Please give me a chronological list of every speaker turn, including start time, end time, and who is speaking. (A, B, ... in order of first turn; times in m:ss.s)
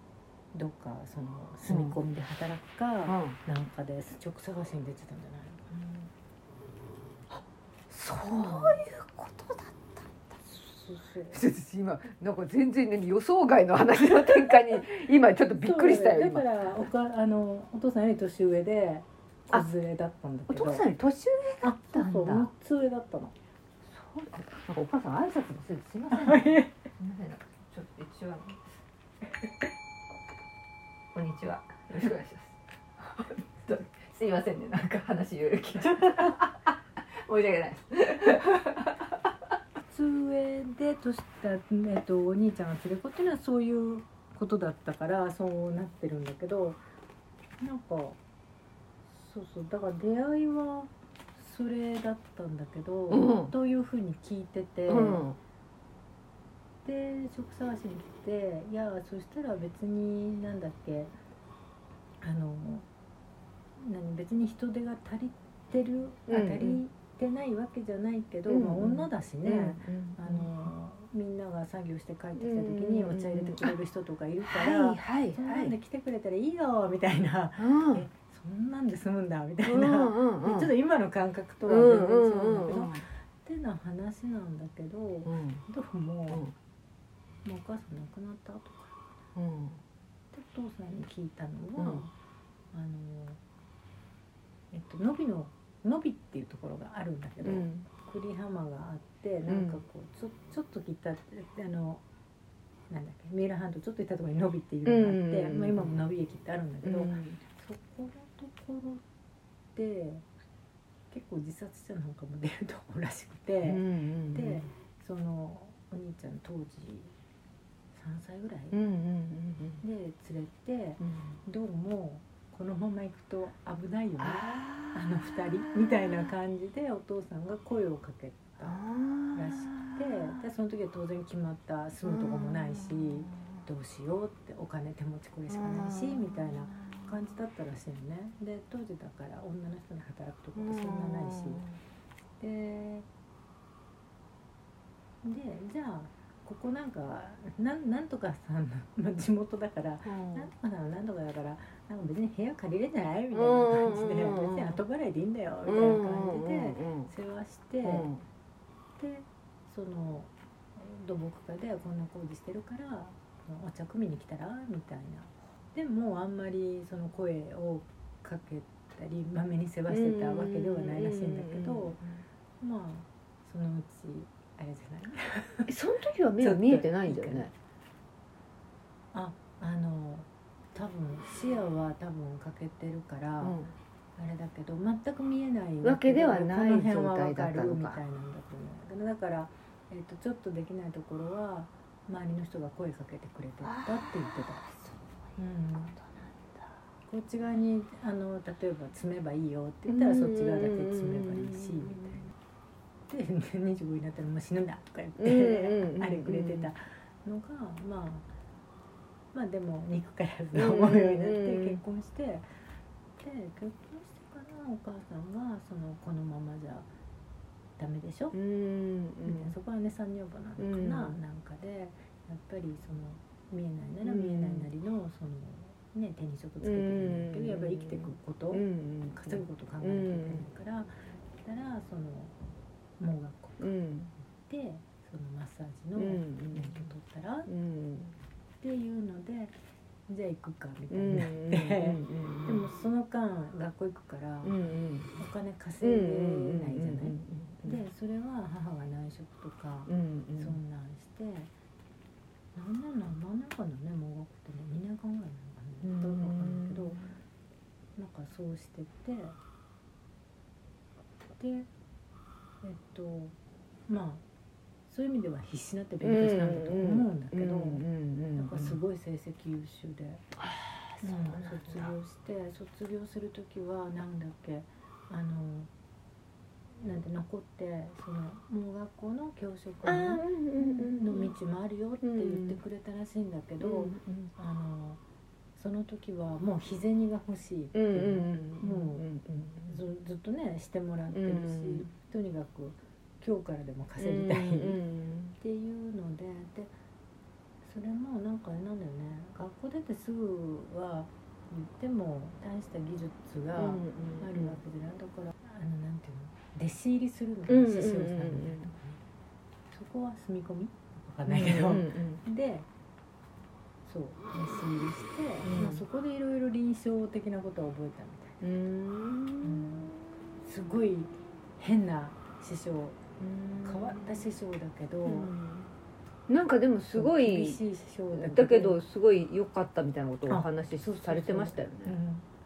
0:00.5-0:06.1 A
0:01.6-0:02.0 B
0:03.0-0:03.4 B
0:07.3-0:10.0 B
0:08.3-0:08.8 A
0:10.5-0:11.4 A
0:11.3-0:16.9 B
0:15.6-0:20.8 A
0:20.5-0:22.5 B
0:21.6-0:23.3 A
0:23.8-0:28.6 B
0:26.1-0:26.7 A
0:31.1-0:36.5 B
0:37.2-0:39.0 B
0:39.9-0:46.8 A
0:47.6-0:48.2 A
0:49.1-0:55.2 A
0:53.1-0:53.5 B
0:54.9-0:55.4 B
0:56.8-1:01.1 A
1:02.2-1:02.8 A
1:03.8-1:26.5 A
1:06.3-1:06.8 B
1:08.5-1:10.7 B
1:12.4-1:13.8 B
1:14.4-1:15.7 B
1:17.6-1:18.1 B
1:19.6-1:20.7 B
1:21.6-1:23.0 B
1:25.2-1:25.6 B
1:26.3-1:26.5 B
1:27.4-1:29.0 A
1:29.4-1:29.8 B
1:30.3-1:32.1 A
1:31.8-1:32.0 B
1:32.7-1:33.4 A
1:34.7-1:42.0 A
1:37.4-1:37.8 B
1:39.4-1:39.8 B
1:42.9-1:49.0 A
1:44.8-1:45.9 B
1:46.8-1:47.4 B
1:49.7-1:50.2 A
1:51.1-1:57.1 A
1:53.6-1:54.7 B
1:57.9-1:58.8 A
1:58.7-1:59.8 B
1:59.8-2:08.8 A
2:04.2-2:06.3 B
2:08.6-2:10.4 B
2:09.3-2:21.6 A
2:12.0-2:13.6 B
2:15.5-2:17.3 B
2:20.6-2:21.8 B
2:22.4-2:23.1 A
2:25.2-2:38.1 A
2:30.0-2:30.5 B
2:33.3-2:34.8 B
2:35.6-2:37.1 B
2:37.8-2:38.2 B
2:39.0-2:52.0 A
2:49.9-2:52.2 B
2:52.6-2:55.7 A
2:55.7-2:57.5 B
2:56.4-2:57.5 A
2:59.1-3:03.6 A
3:03.4-3:03.8 B
3:04.2-3:14.6 A
3:05.8-3:08.0 B
3:13.6-3:16.7 B
3:15.4-3:16.0 A
3:17.1-3:22.3 A
3:19.9-3:22.3 B
3:23.1-3:28.3 A
3:25.2-3:26.7 B
3:29.3-3:32.5 A
3:30.5-3:31.8 B
3:33.2-3:36.9 A
3:37.8-3:38.4 A
3:38.3-3:39.5 B
3:39.2-3:52.3 A
3:40.6-3:41.2 B
3:44.0-3:44.7 B
3:46.6-3:50.5 B
3:53.0-3:53.7 A
3:53.6-3:54.1 B
3:54.4-3:57.5 A
3:56.0-3:56.9 B
3:57.5-3:58.2 B
3:58.6-3:59.6 A
4:00.1-4:04.6 A
4:00.9-4:02.6 B
4:04.4-4:05.1 B
4:05.1-4:11.5 A
4:05.8-4:07.8 B
4:09.9-4:10.6 B
4:12.5-4:17.0 A
4:15.8-4:17.1 B
4:18.0-4:19.4 A
4:21.4-4:21.7 A
4:22.6-4:23.3 A
4:23.9-4:24.2 A
4:24.9-4:27.8 A
4:26.0-4:28.8 B
4:28.3-4:30.2 A
4:30.4-4:31.9 B
4:31.0-4:35.7 A
4:36.8-4:45.0 A
4:39.8-4:41.3 B
4:42.0-4:42.6 B
4:43.6-4:44.3 B
4:45.6-4:49.0 A
4:47.7-4:49.8 B
4:49.7-4:54.8 A
4:51.1-4:51.9 B
4:54.0-4:55.4 B
4:55.4-4:56.7 A
4:57.6-5:09.0 A
5:03.5-5:04.6 B
5:07.5-5:08.7 B
5:09.7-5:12.7 A
5:11.3-5:12.2 B
5:13.8-5:18.4 A
5:15.4-5:15.8 B
5:18.4-5:20.0 B
5:19.4-5:19.9 A
5:20.4-5:23.0 A
5:23.2-5:24.3 B
5:23.6-5:25.3 A
5:25.0-5:25.7 B
5:26.3-5:27.6 B
5:26.9-5:28.8 A
5:28.1-5:32.0 B
5:30.2-5:32.2 A